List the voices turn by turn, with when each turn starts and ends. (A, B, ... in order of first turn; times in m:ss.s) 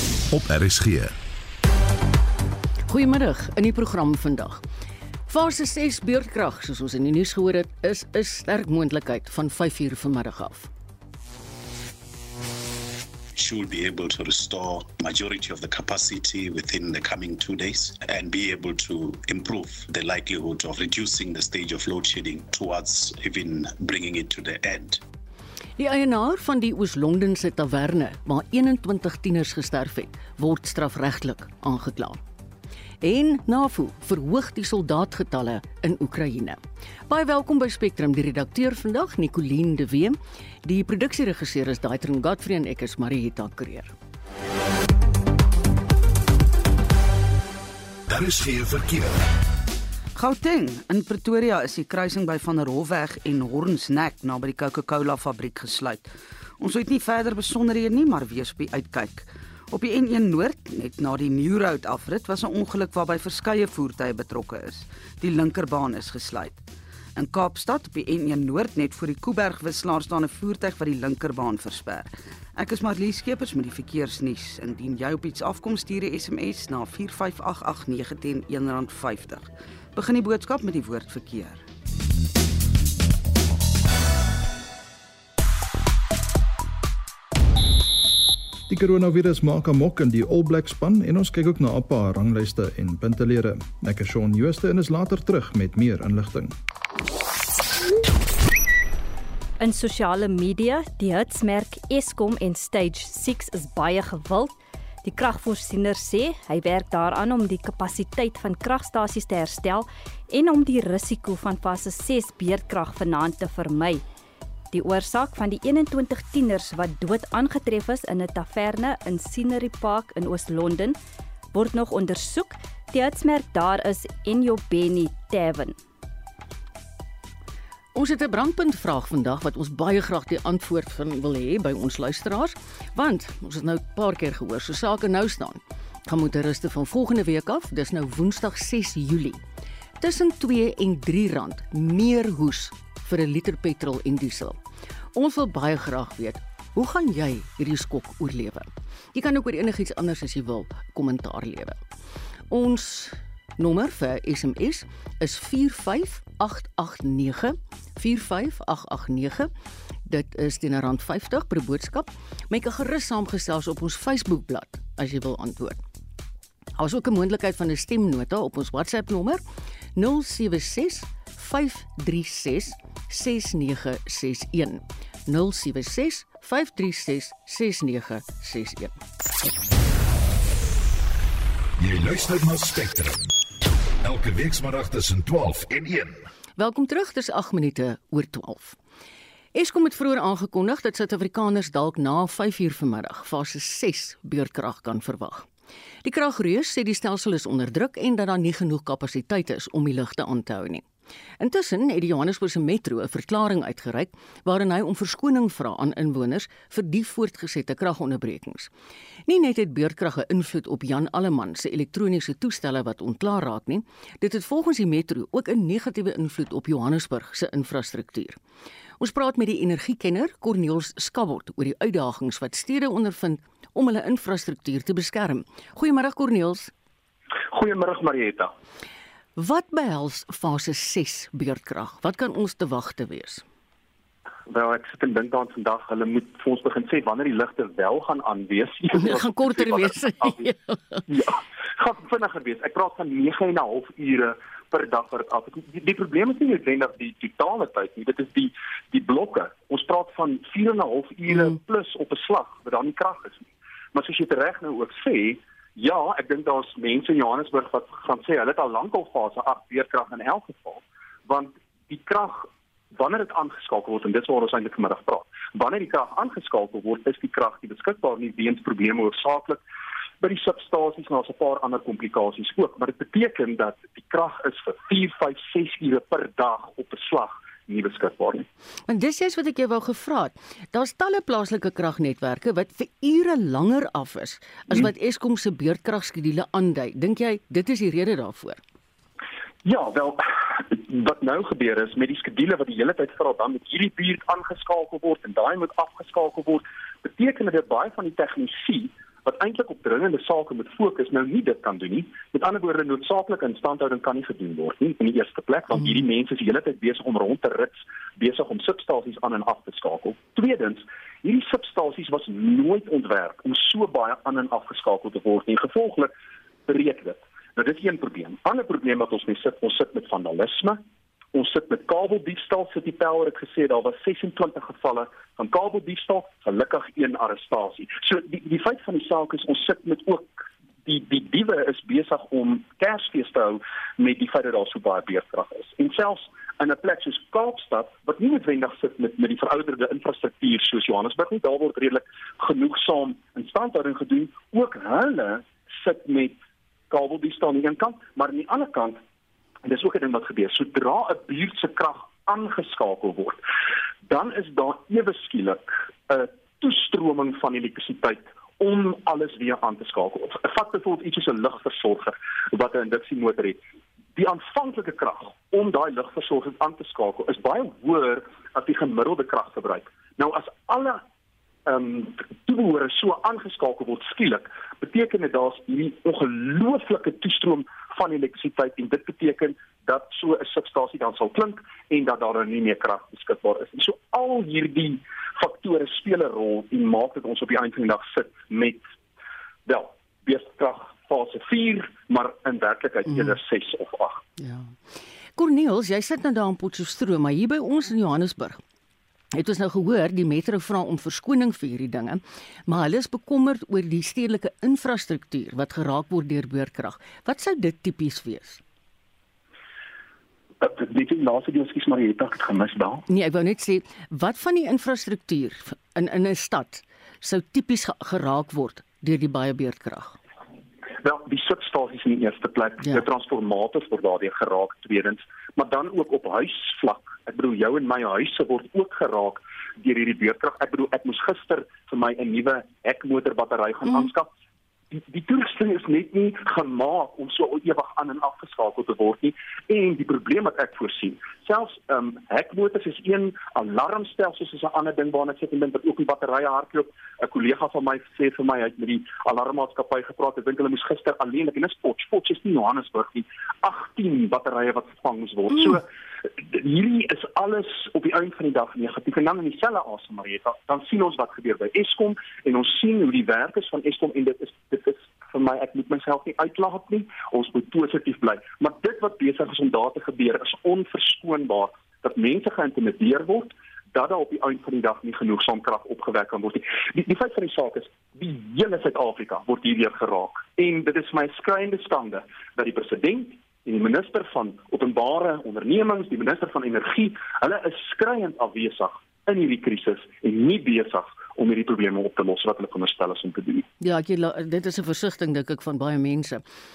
0:00.3-0:01.1 A
0:02.9-0:04.6 B
0:05.3-0:10.7 B
0:13.3-0:25.0 C
0:25.8-0:32.2 B
0:33.0-0:43.9 B
0:48.1-0:49.2 A
0:50.2-1:06.6 D
1:07.2-1:21.6 D
1:28.7-1:36.5 E
1:39.6-1:54.0 F
1:54.7-2:01.0 F
2:01.5-2:05.8 F
2:07.9-2:19.4 B
2:20.0-2:24.6 B
2:25.1-2:31.8 B
2:32.5-2:39.5 B
2:40.0-2:45.8 B
2:46.8-2:49.4 B
2:50.0-2:58.9 B
3:01.8-3:03.2 A
3:04.0-3:06.2 A
3:06.6-3:08.8 B
3:09.5-3:15.5 B
3:16.0-3:20.8 B
3:21.4-3:28.7 B
3:29.3-3:38.4 B
3:39.0-3:46.7 B
3:47.5-3:48.5 G
3:49.4-3:53.4 B
3:54.5-4:00.4 G
3:58.9-4:01.0 B
4:01.1-4:29.6 G
4:30.2-4:38.5 G
4:38.9-4:48.6 B
4:49.6-5:16.1 G
5:16.6-5:20.8 G
5:21.3-5:46.4 G
5:46.9-5:49.0 G
5:49.6-5:53.4 G
5:54.0-6:03.6 G
6:04.2-6:11.0 G
6:11.7-6:28.8 G
6:29.6-6:34.2 G
6:34.4-6:34.8 B
6:35.4-6:38.6 B
6:39.3-6:48.6 B
6:50.6-6:53.0 G
6:53.1-7:00.2 B
7:01.0-7:14.3 G
7:14.9-7:35.8 G
7:36.4-8:13.6 G
8:13.8-8:16.4 B